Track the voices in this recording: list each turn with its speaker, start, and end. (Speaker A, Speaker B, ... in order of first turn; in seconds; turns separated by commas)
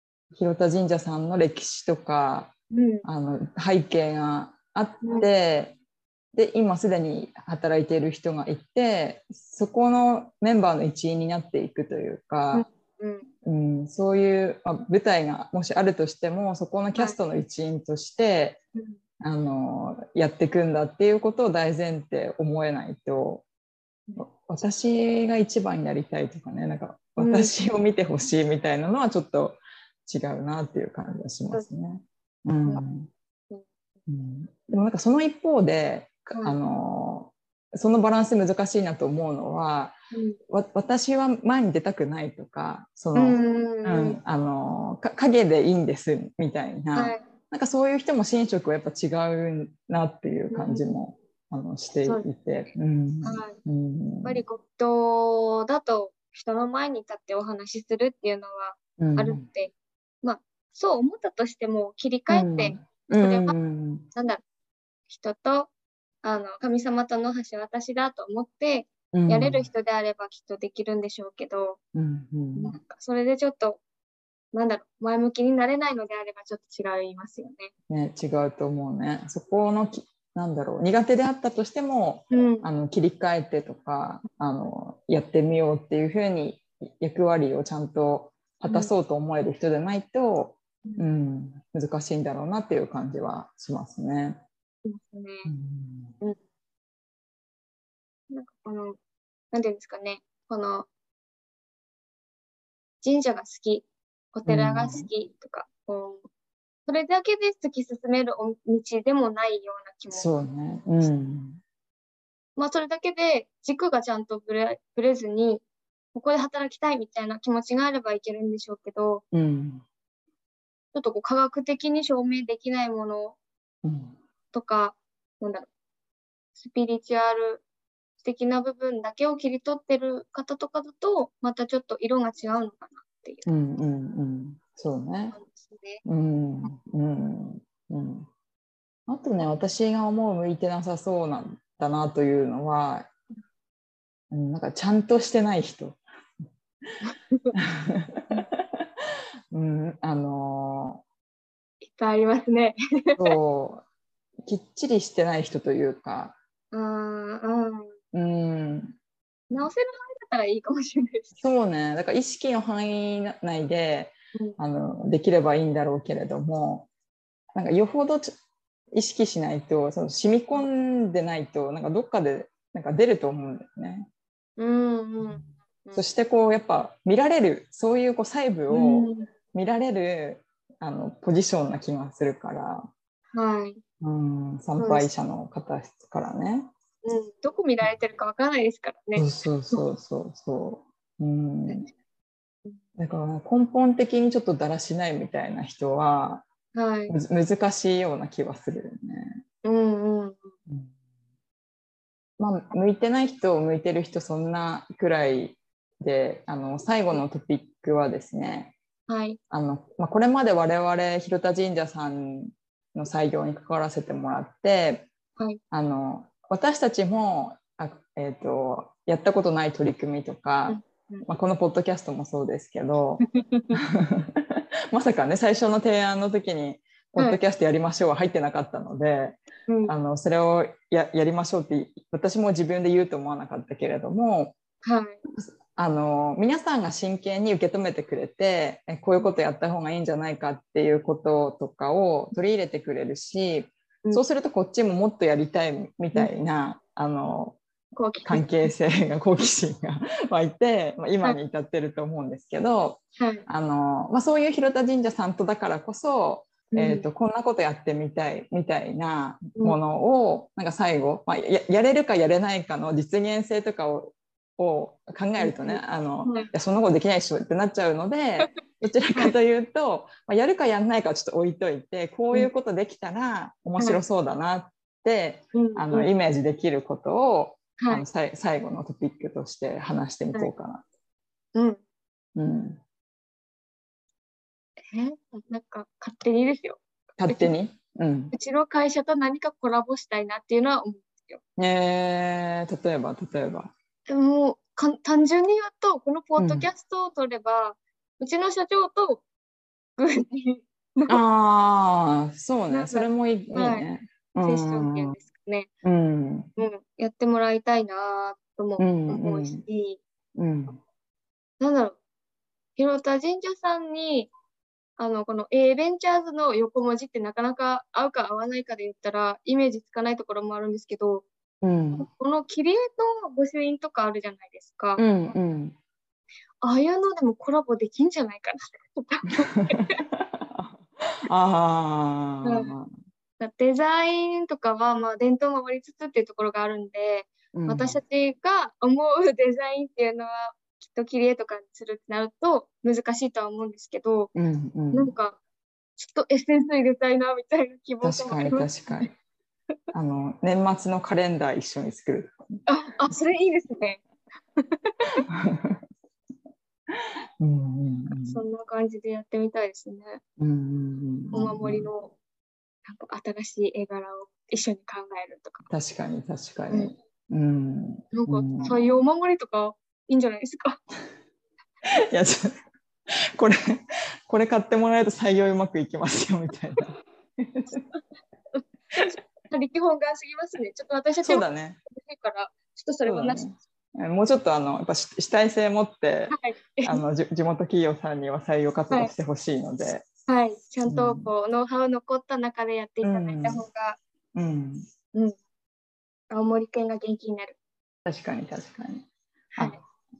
Speaker A: 0.3-5.8, Speaker B: 2.7-3.0, Speaker B: 5.0-5.3, Speaker A: 6.3-12.7, Speaker B: 12.5-13.3, Speaker A: 13.4-18.6, Speaker A: 19.2-23.4, Speaker A: 24.2-33.1, Speaker B: 27.2-27.5, Speaker A: 34.1-40.0, Speaker B: 40.1-40.4, Speaker A: 40.5-54.4, Speaker B: 43.1-44.2, Speaker B: 47.0-47.2, Speaker B: 50.5-50.9, Speaker B: 53.2-53.6, Speaker B: 54.2-63.5, Speaker A: 59.0-59.5, Speaker A: 62.3-64.1, Speaker B: 64.1-64.4, Speaker B: 65.1-65.7, Speaker B: 66.2-71.8, Speaker A: 69.1-69.7, Speaker A: 71.9-72.8, Speaker B: 72.5-73.8, Speaker B: 74.5-77.7, Speaker A: 77.9-94.4, Speaker B: 82.3-82.7, Speaker B: 88.7-88.9, Speaker B: 94.8-95.5, Speaker A: 95.5-96.2, Speaker B: 98.3-99.0, Speaker B: 99.5-100.9, Speaker B: 103.0-106.3, Speaker A: 104.5-105.1, Speaker B: 106.9-110.3, Speaker A: 110.1-111.6, Speaker B: 112.6-119.2, Speaker A: 119.3-119.8, Speaker B: 120.9-123.4, Speaker A: 123.8-124.2, Speaker B: 124.5-125.7, Speaker B: 126.6-127.6, Speaker B: 128.2-133.5, Speaker A: 133.5-135.4, Speaker B: 135.3-136.0, Speaker A: 136.1-138.3, Speaker A: 139.1-143.1, Speaker A: 144.3-146.0, Speaker B: 147.0-147.5, Speaker A: 147.6-148.2, Speaker A: 149.5-151.0, Speaker B: 151.8-153.4, Speaker A: 153.2-153.8, Speaker A: 154.4-156.4, Speaker B: 156.7-157.9, Speaker A: 158.1-159.0, Speaker B: 159.5-161.4, Speaker A: 161.4-166.9, Speaker A: 167.5-168.3, Speaker A: 168.9-174.1, Speaker B: 174.6-176.0, Speaker A: 175.2-182.9, Speaker B: 178.7-179.3, Speaker B: 183.3-183.8, Speaker A: 184.0-186.7, Speaker B: 184.8-185.1, Speaker B: 187.1-189.8, Speaker A: 189.2-191.9, Speaker A: 193.0-196.5, Speaker B: 196.8-197.2, Speaker A: 197.1-199.4, Speaker B: 199.6-200.5, Speaker A: 200.7-200.9, Speaker A: 202.4-208.8, Speaker B: 209.1-209.4, Speaker A: 209.5-215.1, Speaker A: 215.7-223.2, Speaker B: 220.7-221.3, Speaker B: 223.3-223.8, Speaker A: 223.8-234.6, Speaker B: 229.7-229.9, Speaker B: 234.8-235.2, Speaker A: 235.3-247.6, Speaker B: 248.0-248.7, Speaker A: 248.2-280.8, Speaker B: 253.2-253.4, Speaker B: 256.7-257.1, Speaker B: 265.4-266.5, Speaker B: 275.5-276.1, Speaker B: 277.8-278.1, Speaker B: 281.6-281.8, Speaker A: 282.4-282.8, Speaker B: 284.8-287.5, Speaker A: 287.2-288.3, Speaker B: 288.3-291.4, Speaker A: 291.6-293.7, Speaker B: 294.1-299.2, Speaker A: 296.4-296.7, Speaker B: 300.0-301.2, Speaker A: 301.1-305.2, Speaker B: 302.7-303.9, Speaker B: 304.4-305.7, Speaker A: 305.8-306.5, Speaker B: 306.6-310.0, Speaker A: 308.8-309.6, Speaker A: 310.4-310.8, Speaker B: 311.6-312.0, Speaker B: 312.8-314.3, Speaker B: 315.0-321.3, Speaker A: 321.6-322.1, Speaker B: 321.9-325.1, Speaker A: 325.0-325.8, Speaker B: 326.6-330.0, Speaker A: 329.5-332.9, Speaker B: 332.4-332.7, Speaker B: 333.4-344.3, Speaker A: 337.5-338.0, Speaker A: 344.4-345.1, Speaker B: 344.9-345.4, Speaker B: 346.0-349.1, Speaker A: 348.0-349.1, Speaker A: 349.9-352.6, Speaker B: 352.7-354.0, Speaker B: 354.6-355.2, Speaker A: 355.3-355.8, Speaker A: 357.4-358.4, Speaker B: 358.3-360.2, Speaker A: 360.4-361.9, Speaker B: 361.3-362.1, Speaker B: 362.9-365.6, Speaker A: 365.7-368.8, Speaker B: 368.1-370.8, Speaker A: 372.1-372.6, Speaker A: 373.1-377.8, Speaker B: 377.7-378.0, Speaker B: 378.6-383.4, Speaker A: 381.2-381.8, Speaker A: 383.1-390.1, Speaker B: 386.3-387.0, Speaker B: 390.3-394.0, Speaker A: 390.9-391.3, Speaker A: 393.0-393.7, Speaker A: 394.4-394.9, Speaker B: 396.3-397.6, Speaker A: 398.1-399.1, Speaker B: 399.5-399.8